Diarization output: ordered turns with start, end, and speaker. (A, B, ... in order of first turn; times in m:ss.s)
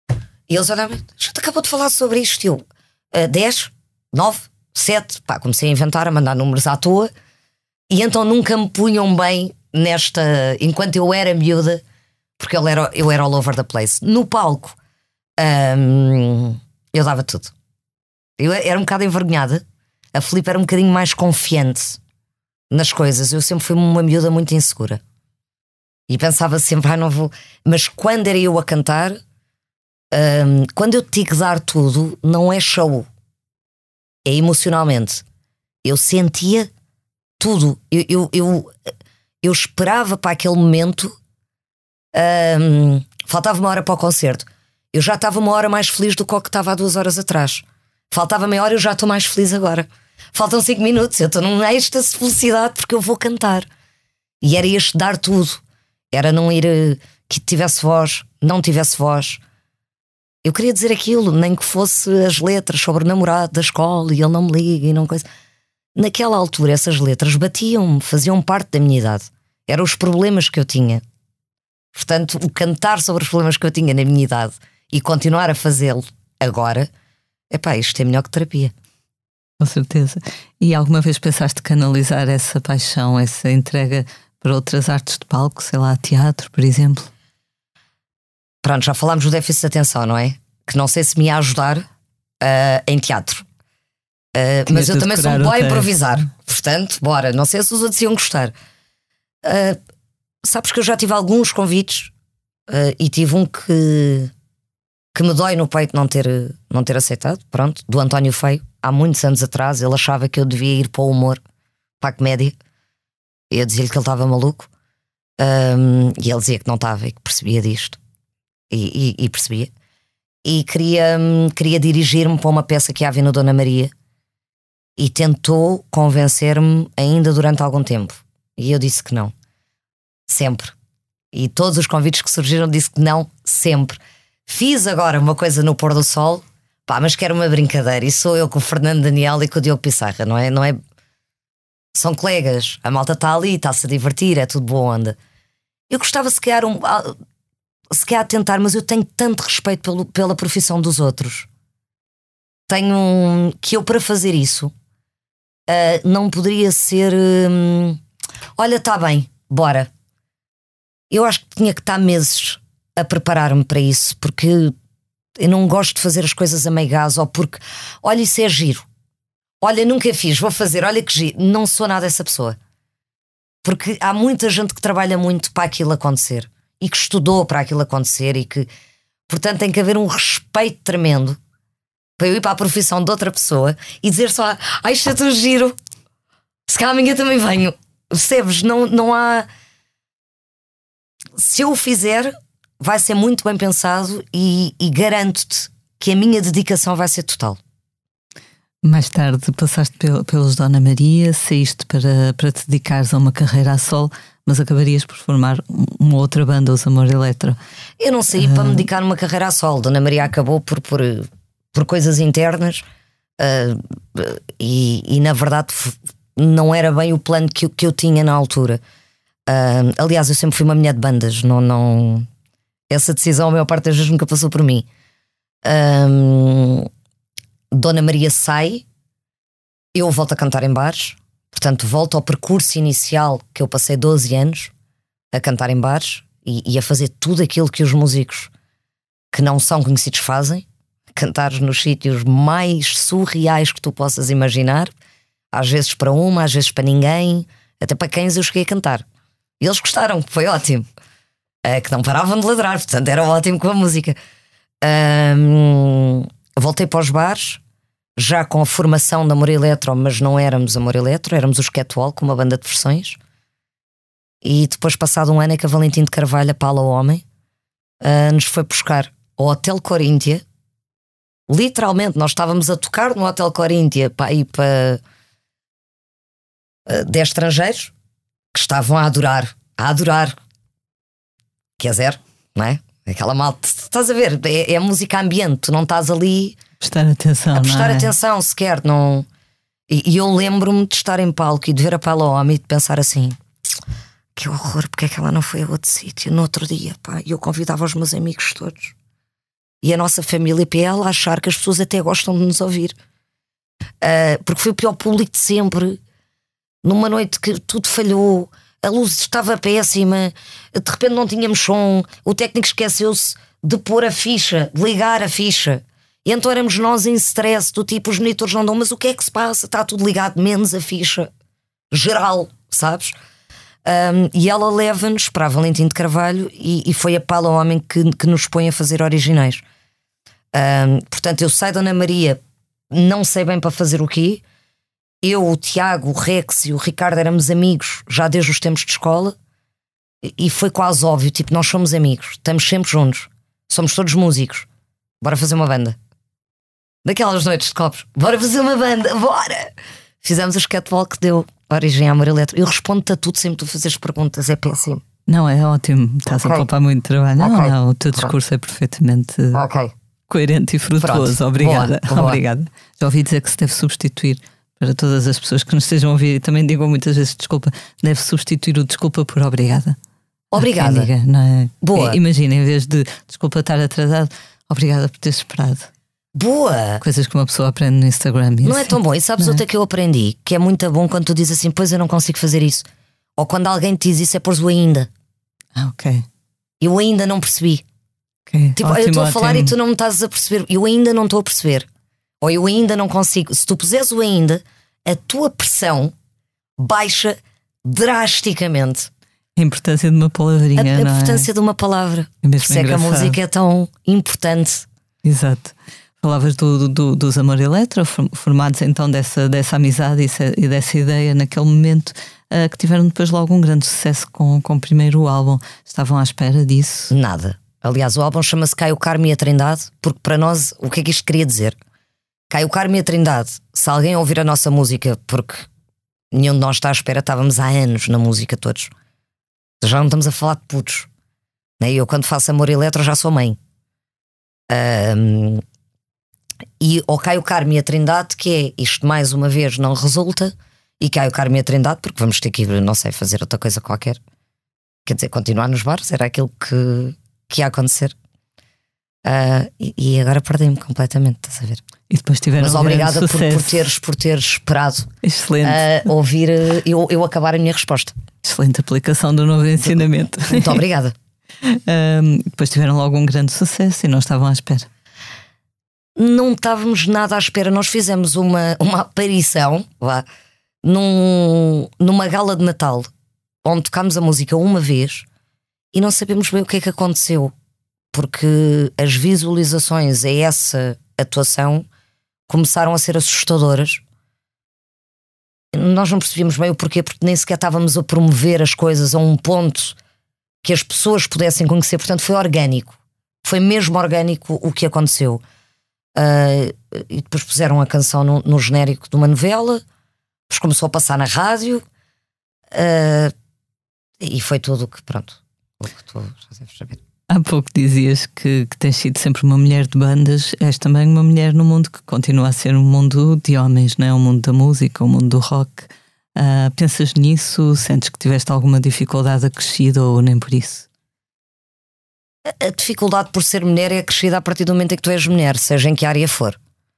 0:00.5-0:07.1 A
0:07.9-0:11.8 A
0:12.4-0:14.8 A
0:15.4-0:17.5 A
0:18.4-0:22.0 A
0:22.7-0:25.0 A
0:26.1-0:29.2 A
0:30.1-0:33.1 A
0:34.3-0:35.2 A
0:35.8-0:36.7 A
0:37.4-0:38.7 A
0:39.4-0:41.2 A
0:42.1-0:53.7 A
0:54.4-0:55.6 A
0:56.1-0:59.4 A
1:00.4-1:05.3 A
1:06.0-1:11.0 A
1:12.0-1:16.9 A
1:17.5-1:18.7 A
1:19.6-1:27.1 B
1:28.6-1:31.9 A
1:32.4-1:33.4 A
1:34.4-1:38.6 A
1:34.7-1:35.9 B
1:39.4-1:39.8 A
1:40.4-1:42.1 A
1:42.7-1:44.3 A
1:45.1-1:51.4 A
1:52.0-1:52.6 A
1:53.5-1:54.7 A
1:55.4-1:58.0 A
1:58.7-1:59.7 A
2:00.4-2:03.9 A
2:05.0-2:09.3 A
2:10.3-2:10.8 A
2:11.3-2:20.8 A
2:21.9-2:25.2 A
2:25.9-2:27.2 A
2:27.9-2:31.5 A
2:32.7-2:34.7 A
2:35.7-2:38.0 A
2:38.6-2:39.9 A
2:41.1-2:44.8 A
2:45.4-2:48.9 A
2:49.6-2:52.6 A
2:53.6-2:58.7 A
2:59.3-3:01.4 A
3:02.2-3:05.8 A
3:06.7-3:09.5 A
3:11.4-3:17.6 A
3:18.8-3:27.6 B
3:28.0-3:32.8 A
3:28.4-3:28.8 B
3:33.4-3:38.8 A
3:39.5-3:42.3 A
3:42.9-3:44.9 A
3:45.6-3:46.9 A
3:47.7-3:48.8 A
3:49.9-3:54.7 A
3:55.3-3:58.5 A
3:59.3-4:04.9 A
4:05.5-4:09.1 A
4:09.6-4:10.9 A
4:11.6-4:14.2 A
4:14.8-4:17.6 A
4:18.2-4:23.2 A
4:24.4-4:27.2 A
4:28.0-4:30.4 A
4:31.5-4:35.0 A
4:36.9-4:37.9 A
4:38.5-4:40.4 A
4:41.8-4:46.6 A
4:46.8-4:48.1 B
4:47.5-4:49.3 A
4:49.9-4:53.4 A
4:54.4-4:59.0 A
4:59.8-5:03.0 A
5:04.0-5:06.0 A
5:06.8-5:21.3 A
5:21.9-5:23.2 A
5:23.8-5:29.6 A
5:30.5-5:34.4 A
5:35.2-5:39.4 A
5:40.2-5:44.7 A
5:45.2-5:46.0 A
5:47.0-5:55.0 A
5:55.3-5:59.6 B
5:56.3-5:56.7 A
5:57.4-5:58.3 A
5:59.5-5:59.9 A
6:00.3-6:10.0 B
6:01.0-6:02.4 A
6:10.5-6:11.1 A
6:10.6-6:15.9 B
6:11.8-6:12.2 A
6:16.4-6:17.0 A
6:17.0-6:19.6 B
6:18.6-6:25.1 A
6:25.8-6:26.2 B
6:26.8-6:27.8 A
6:28.5-6:29.8 B
6:28.8-6:31.9 A
6:32.4-6:36.1 A
6:36.8-6:39.1 A
6:39.6-6:41.5 B
6:40.8-6:44.9 A
6:42.4-6:43.4 B
6:45.2-6:57.1 B
6:57.1-7:01.8 A
7:02.5-7:05.7 A
7:06.3-7:08.9 A
7:09.8-7:11.1 A
7:11.8-7:13.6 A
7:14.7-7:15.6 A
7:16.8-7:24.2 A
7:25.1-7:28.2 A
7:29.2-7:31.8 A
7:32.1-7:33.9 B
7:32.6-7:35.1 A
7:35.2-7:36.1 B
7:35.6-7:38.2 A
7:38.4-7:40.8 B
7:40.5-7:41.2 A
7:41.6-7:44.9 B
7:46.2-7:50.3 A
7:50.8-7:53.1 A
7:53.6-7:55.3 A
7:55.9-7:57.5 A
7:58.1-8:01.9 A
8:02.5-8:04.0 A
8:05.7-8:10.0 A
8:10.6-8:15.4 A
8:16.2-8:19.8 A
8:20.5-8:21.8 A
8:22.7-8:23.3 A
8:24.2-8:27.0 A
8:27.3-8:40.9 B
8:42.5-8:46.6 A